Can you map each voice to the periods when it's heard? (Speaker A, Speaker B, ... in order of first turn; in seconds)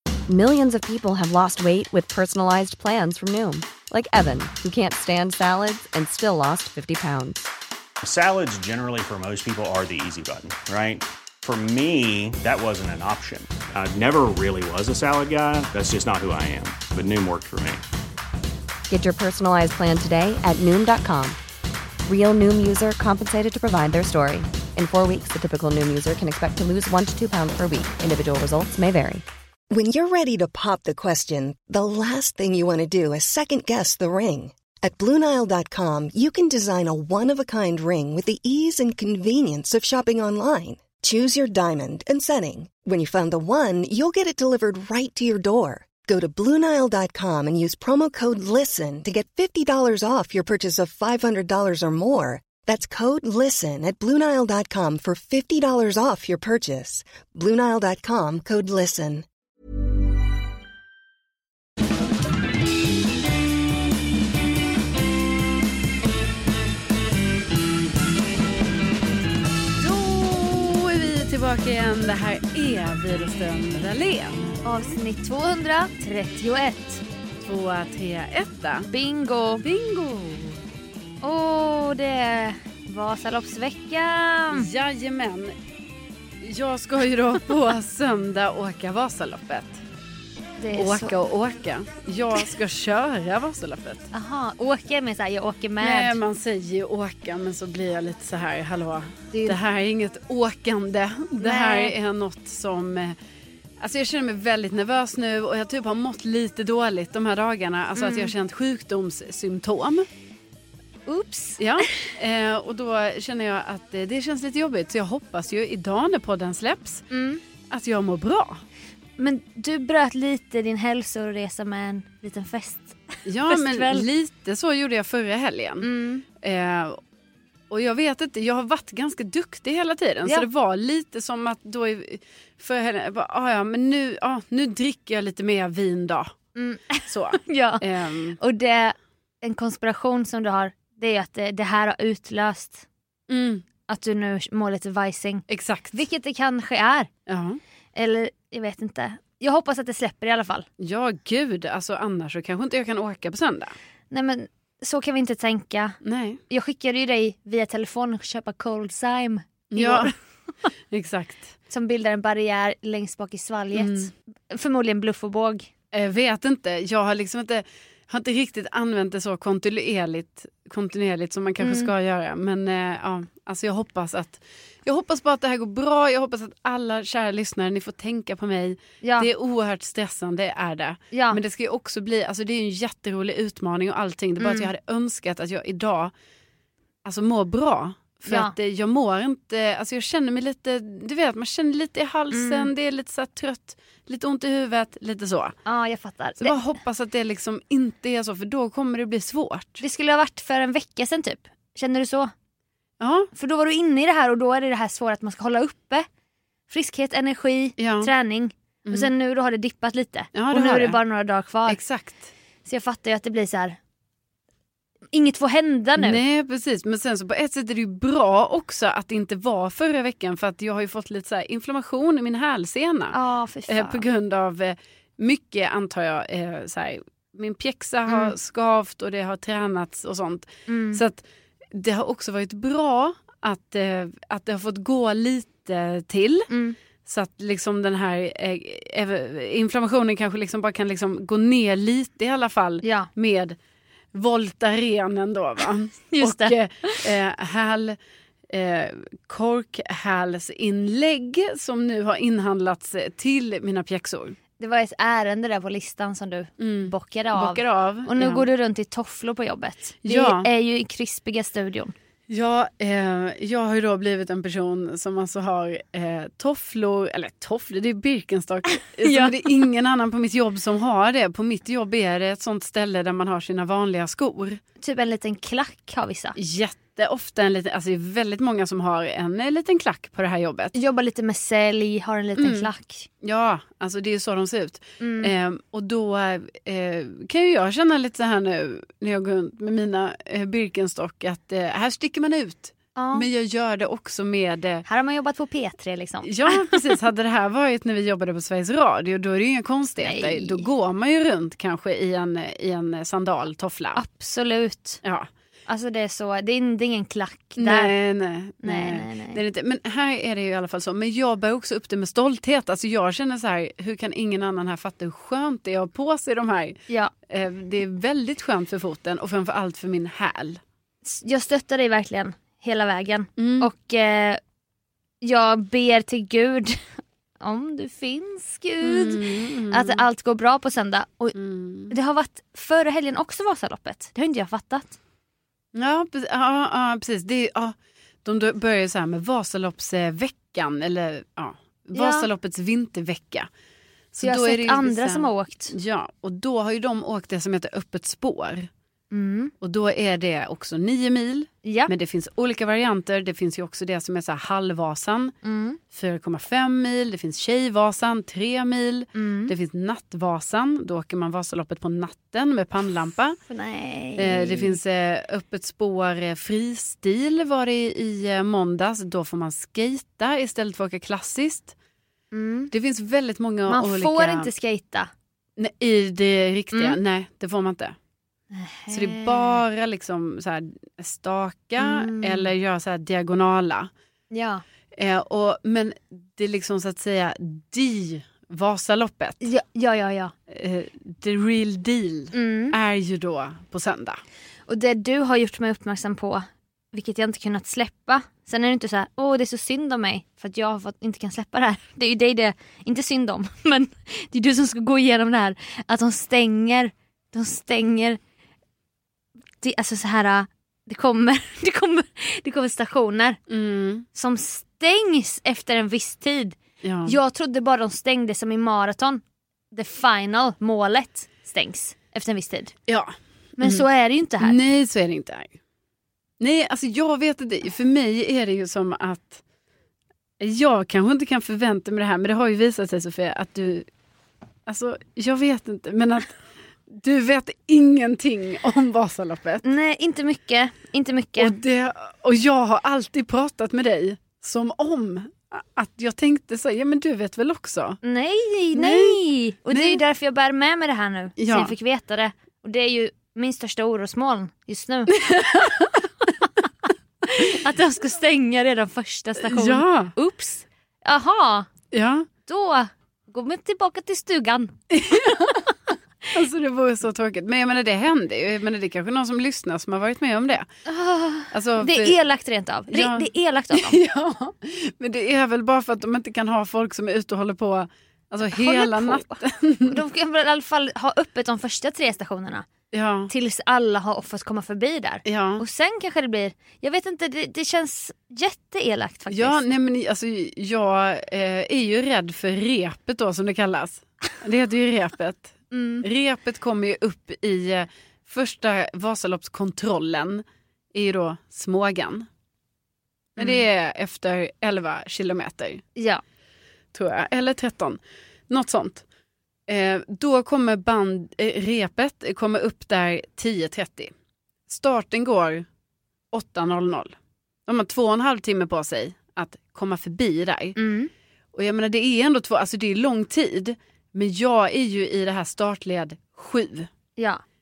Speaker A: 0.3-7.5, 18.9-21.4, 22.1-29.3
Speaker B: 8.0-17.8
Speaker C: 29.7-59.3
Speaker D: 69.8-74.6, 77.5-78.9, 79.6-80.6, 84.5-85.5, 86.4-89.8, 90.8-94.1, 95.8-103.2, 103.8-110.1, 111.6-117.1, 117.7-118.6, 123.3-125.9, 126.4-127.0, 127.7-136.3, 137.0-138.4, 143.3-143.7, 145.5-146.0, 147.3-147.6, 150.8-153.8, 156.0-156.4, 159.7-160.1, 160.9-161.5, 163.7-164.1, 165.9-186.1, 187.1-195.6, 196.4-199.8, 203.0-203.3, 207.8-208.1, 210.3-211.0, 211.7-212.3, 216.0-223.2, 223.7-231.2, 231.7-236.5, 237.1-243.6, 244.1-248.0, 248.5-254.4, 256.6-258.5, 260.0-260.5, 262.3-274.6, 276.4-280.7, 282.4-282.7, 283.2-294.9, 296.2-304.0, 305.0-305.3, 307.6-320.6, 323.4-323.7, 328.8-330.1, 331.4-331.9, 335.8-343.5, 344.1-348.7, 349.6-355.4, 355.9-363.4, 364.2-371.7, 372.7-374.5, 375.6-377.9, 378.9-383.9, 384.9-389.4, 390.5-394.2, 413.5-414.1, 416.8-417.2, 422.9-423.9, 424.4-425.5, 426.4-429.4, 430.4-433.9, 434.7-436.4, 436.9-439.6, 441.4-448.0, 448.7-449.2, 449.7-450.0, 451.4-451.7, 455.1-456.0, 459.4-460.1, 461.9-462.3, 464.9-465.7, 466.3-470.7, 471.5-472.2, 472.9-480.0, 482.9-483.3, 485.2-485.6, 489.3-502.3, 503.4-505.8, 506.9-508.0, 508.5-509.0, 509.7-514.1, 514.7-515.7, 516.3-517.1, 517.7-520.8, 521.5-526.9
Speaker E: 74.6-77.0, 78.9-79.7, 81.2-84.7, 90.6-91.1, 94.1-96.2, 99.3-99.6, 101.4-101.9, 108.0-108.3, 111.1-111.6, 117.1-117.4, 119.2-124.1, 125.8-126.2, 136.6-137.8, 138.4-142.8, 143.9-147.1, 147.9-150.7, 154.1-156.0, 156.5-160.1, 161.7-165.7, 171.6-171.9, 179.0-179.3, 181.1-181.4, 184.4-184.7, 188.3-188.6, 192.3-192.7, 195.7-196.6, 199.8-202.3, 203.3-206.1, 206.7-211.8, 212.7-213.8, 215.1-216.2, 223.1-224.0, 228.1-228.3, 230.7-231.0, 236.5-236.8, 242.8-243.1, 246.1-247.0, 254.6-261.9, 268.9-269.3, 274.8-276.4, 280.7-283.1, 285.0-285.4, 293.0-293.3, 294.9-296.8, 300.0-300.6, 303.9-305.0, 305.7-307.9, 308.6-309.4, 321.0-324.4, 325.2-326.8, 327.4-331.4, 331.9-335.0, 341.9-342.3, 344.2-345.7, 349.1-349.5, 351.6-351.9, 355.4-355.8, 359.1-359.5, 363.5-364.8, 372.3-372.7, 373.7-375.1, 378.5-379.6, 381.8-382.5, 384.3-384.6, 389.4-390.3, 392.3-392.8, 394.7-408.2, 409.6-413.4, 414.1-422.7, 423.6-424.6, 439.6-441.6, 448.0-455.2, 457.2-461.7, 462.5-465.6, 470.9-474.0, 478.5-482.7, 483.3-489.6, 495.7-496.1, 503.4-503.6, 520.8-521.1, 527.2-527.4